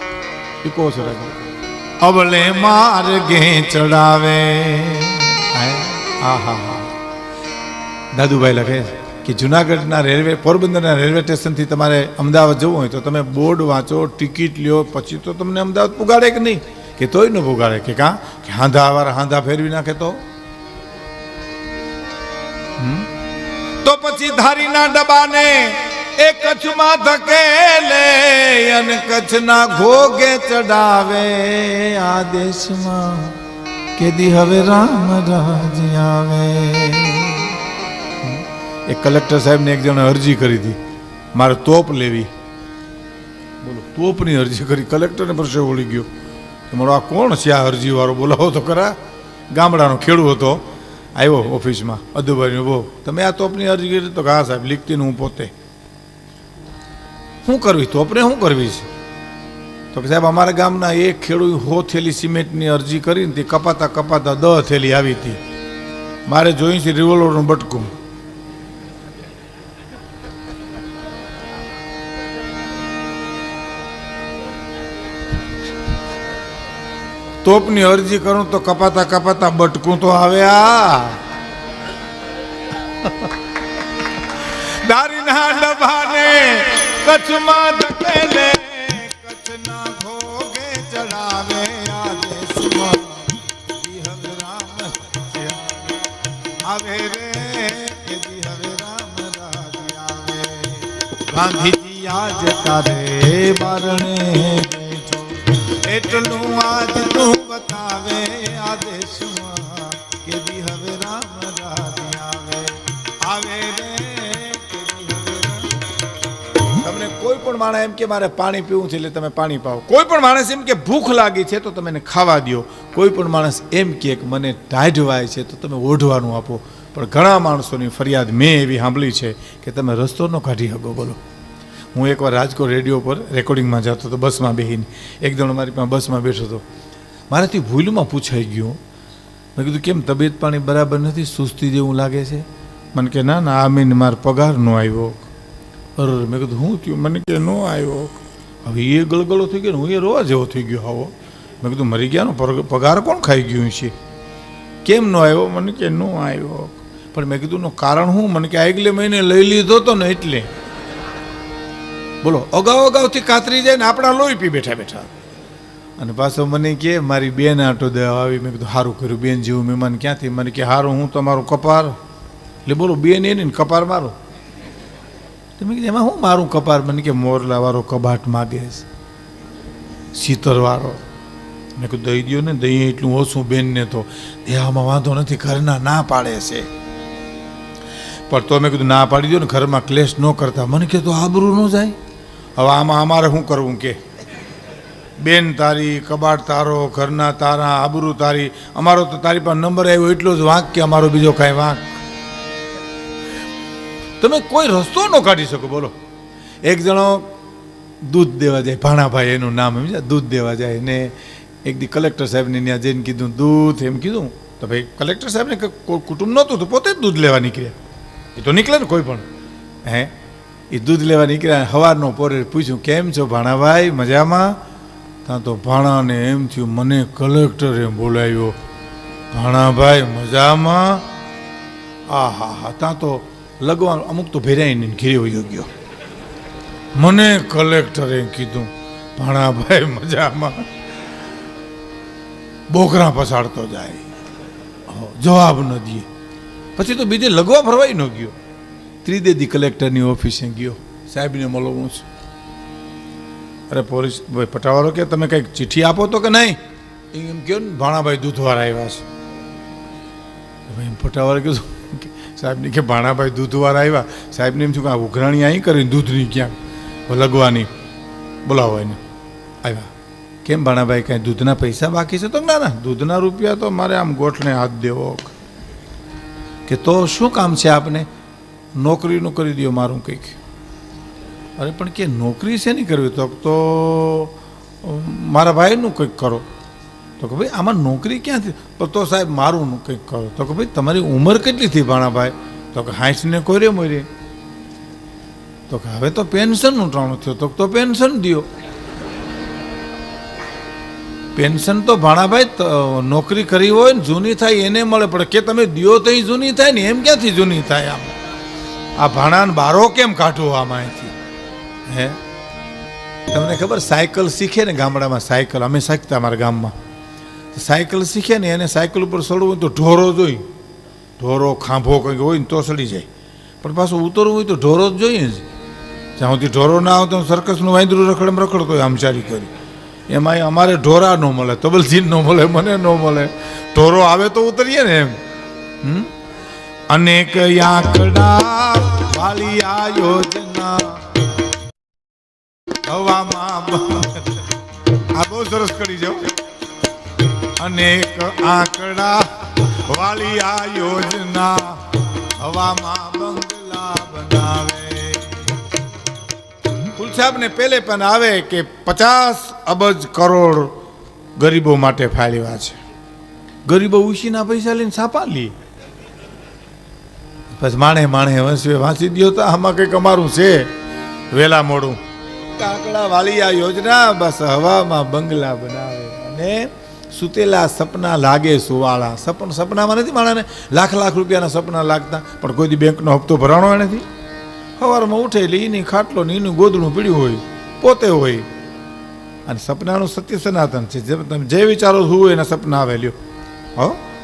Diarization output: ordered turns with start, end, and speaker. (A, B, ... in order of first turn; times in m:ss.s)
0:00.6-0:01.4 A
0:02.0-0:06.9 A
0:08.1-0:20.2 A
0:22.8-0:23.1 A
0:23.8-0:33.4 A
0:34.0-0:37.6 A
0:38.2-0:40.8 A
0:41.3-0:42.3 A
0:43.6-0:46.1 A
0:46.7-0:49.0 A
0:49.5-0:55.5 A
0:57.4-0:58.9 A
0:59.9-1:05.4 A
1:06.2-1:07.9 A
1:17.4-1:21.2 A
1:23.0-1:23.3 A
1:24.3-1:36.0 A
1:36.6-1:55.9 A
1:56.8-2:11.2 A
2:11.9-2:16.6 A
2:17.3-2:18.8 A
2:19.6-2:25.3 A
2:26.0-2:33.9 A
2:34.8-2:40.5 A
2:42.2-2:45.1 A
2:46.0-2:52.0 A
2:52.6-2:54.2 A
2:55.6-2:58.8 A
3:00.1-3:01.0 A
3:01.8-3:06.7 A
3:08.3-3:12.0 A
3:12.6-3:14.0 A
3:15.2-3:21.9 A
3:24.2-3:25.9 A
3:26.6-3:27.3 A
3:28.0-3:37.8 A
3:38.3-3:39.2 A
3:39.8-3:40.1 A
3:40.7-3:44.6 A
3:45.2-3:48.6 A
3:49.3-3:51.1 A
3:52.1-3:55.7 A
3:57.0-4:00.7 A
4:02.7-4:04.0 A
4:04.9-4:06.1 A
4:06.8-4:08.4 A
4:09.0-4:12.0 A
4:13.7-4:16.6 A
4:17.1-4:19.0 A
4:20.7-4:26.6 A
4:27.1-4:27.7 A
4:28.4-4:29.0 A
4:29.6-4:29.9 A
4:30.4-4:35.3 A
4:36.6-4:38.1 A
4:38.7-4:40.4 A
4:41.6-4:46.4 A
4:47.2-4:54.1 A
4:55.7-4:58.5 A
5:01.3-5:08.1 A
5:09.0-5:11.1 A
5:11.9-5:12.2 A
5:13.3-5:16.7 A
5:17.5-5:20.5 A
5:21.2-5:23.1 A
5:23.6-5:25.4 A
5:26.2-5:29.5 A
5:30.1-5:35.2 A
5:35.8-5:36.1 A
5:36.9-5:41.2 A
5:42.9-5:44.4 A
5:45.1-5:46.3 A
5:47.6-5:55.6 A
5:56.9-6:00.8 A
6:01.4-6:02.8 A
6:03.7-6:05.5 A
6:07.6-6:10.7 A
6:11.3-6:12.0 A
6:12.5-6:24.0 A
6:24.8-6:28.5 A
6:29.4-6:33.2 A
6:33.8-6:34.0 A